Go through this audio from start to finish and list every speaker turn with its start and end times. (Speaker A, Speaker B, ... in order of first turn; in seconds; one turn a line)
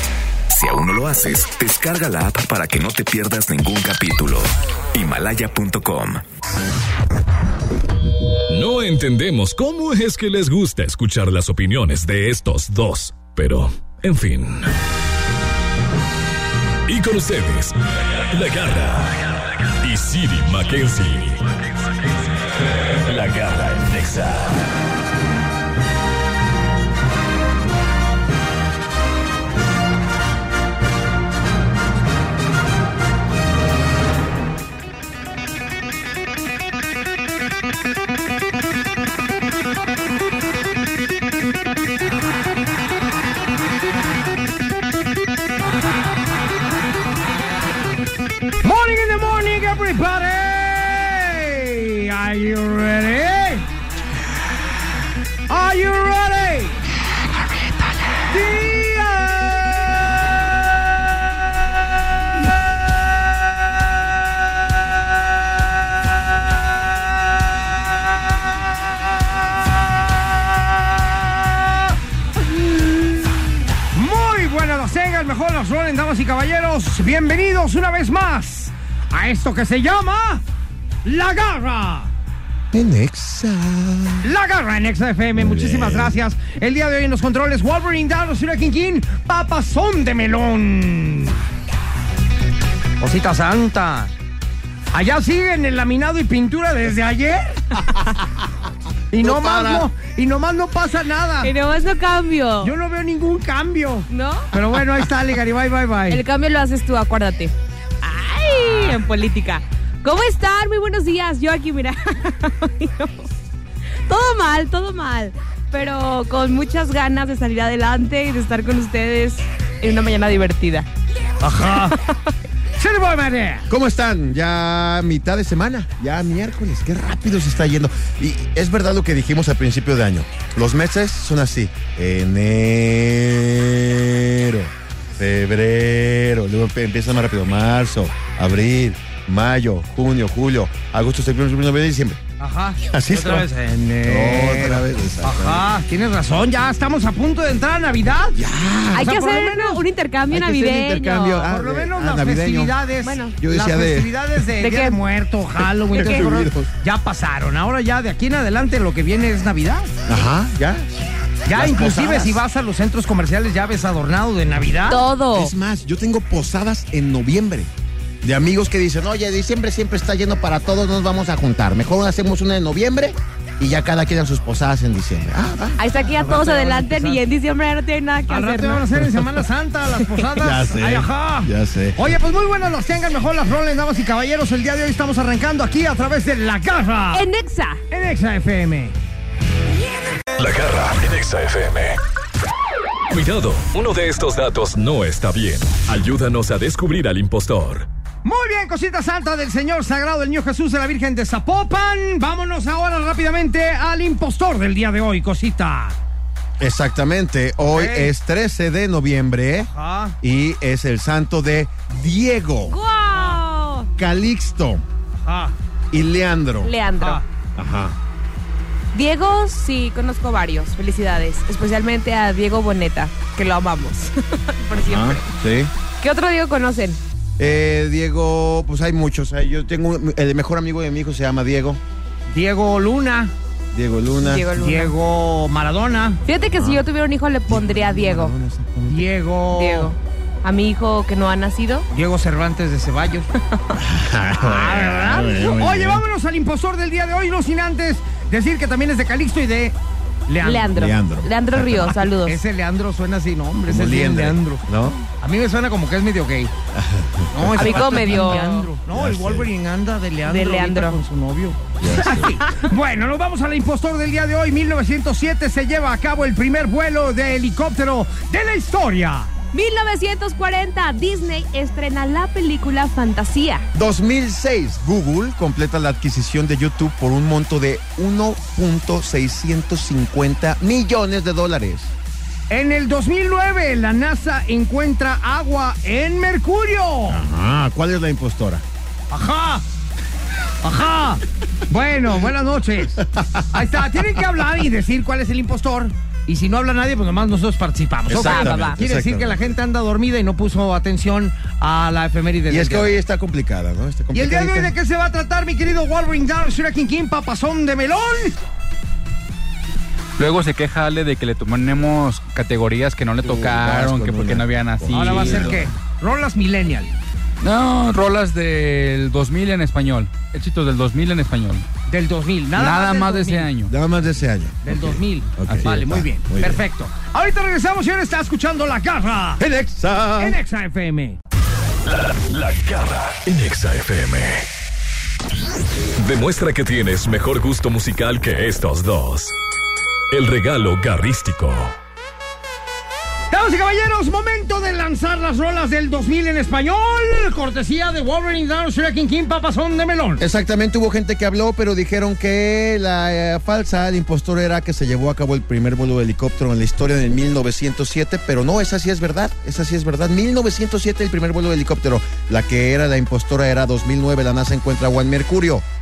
Speaker A: 0.5-6.2
Speaker B: 8.5-14.7
Speaker B: 16.9-24.6
Speaker C: 48.6-53.6
Speaker C: 55.5-56.8
Speaker C: 58.2-60.0
Speaker C: 71.0-71.8
Speaker C: 73.9-80.4
Speaker C: 81.0-82.1
Speaker D: 82.7-84.3
Speaker C: 84.2-91.4
Speaker D: 85.3-86.2
Speaker C: 93.0-94.1
Speaker C: 94.9-97.8
Speaker D: 97.8-98.5
Speaker C: 99.1-101.5
Speaker D: 99.2-99.9
Speaker E: 101.4-102.7
Speaker C: 102.6-106.2
Speaker E: 104.1-104.5
Speaker E: 106.1-113.3
Speaker C: 108.7-108.9
Speaker E: 114.1-120.9
Speaker C: 121.4-122.0
Speaker E: 121.9-122.3
Speaker C: 122.8-123.6
Speaker D: 123.7-142.2
Speaker C: 142.4-148.4
Speaker D: 142.9-143.5
Speaker D: 144.0-145.7
Speaker D: 148.3-149.1
Speaker E: 148.9-151.5
Speaker C: 148.9-149.8
Speaker D: 150.3-152.7
Speaker C: 151.5-159.9
Speaker E: 153.0-153.4
Speaker D: 153.4-154.1
Speaker E: 154.6-155.0
Speaker D: 155.6-156.7
Speaker E: 155.9-156.2
Speaker D: 160.1-160.8
Speaker C: 161.4-165.0
Speaker D: 161.5-162.4
Speaker E: 164.9-165.5
Speaker D: 165.3-175.8
Speaker E: 175.8-178.9
Speaker C: 176.0-177.2
Speaker C: 178.3-187.2
Speaker D: 180.4-182.0
Speaker E: 187.1-187.8
Speaker C: 187.9-188.9
Speaker B: 190.3-192.0
Speaker B: 193.1-197.9
Speaker C: 198.2-205.9
Speaker D: 206.6-209.7
Speaker C: 207.6-208.1
Speaker C: 209.6-210.2
Speaker D: 210.2-212.8
Speaker E: 212.7-213.9
Speaker C: 213.1-213.4
Speaker D: 214.0-214.8
Speaker C: 215.2-215.5
Speaker D: 215.9-216.7
Speaker E: 216.6-217.2
Speaker C: 217.0-217.2
Speaker D: 217.6-217.9
Speaker E: 218.9-225.3
Speaker D: 224.8-225.7
Speaker E: 226.0-227.0
Speaker D: 227.4-231.8
Speaker C: 232.3-233.3
Speaker D: 233.7-234.5
Speaker E: 234.2-234.9
Speaker C: 234.6-236.2
Speaker E: 236.2-238.3
Speaker D: 236.5-236.8
Speaker D: 237.5-239.1
Speaker C: 238.9-239.9
Speaker E: 239.6-241.8
Speaker C: 241.9-243.3
Speaker D: 243.7-246.0
Speaker C: 244.4-249.7
Speaker C: 250.3-250.8
Speaker E: 250.4-252.4
Speaker D: 250.7-252.1
Speaker C: 252.2-256.5
Speaker D: 253.7-255.0
Speaker D: 256.7-258.3
Speaker C: 257.3-269.3
Speaker E: 257.5-258.7
Speaker D: 258.9-259.5
Speaker E: 260.2-261.0
Speaker D: 261.8-262.4
Speaker E: 269.5-273.6
Speaker D: 273.7-281.9
Speaker C: 282.5-287.2
Speaker D: 287.1-288.6
Speaker C: 289.1-289.6
Speaker C: 290.6-293.0
Speaker D: 292.9-293.8
Speaker C: 293.5-302.9
Speaker D: 298.1-299.5
Speaker E: 298.1-298.8
Speaker D: 302.5-304.7
Speaker C: 304.1-308.4
Speaker F: 310.2-315.6
Speaker D: 313.2-315.7
Speaker C: 314.9-316.9
Speaker F: 317.4-321.7
Speaker C: 321.9-323.5
Speaker F: 322.6-323.7
Speaker D: 323.6-326.6
Speaker C: 324.6-329.4
Speaker D: 329.4-330.4
Speaker C: 330.2-331.2
Speaker B: 331.8-334.5
Speaker B: 336.0-339.3
Speaker B: 340.1-341.7
Speaker C: 343.3-350.2
Speaker D: 350.2-365.6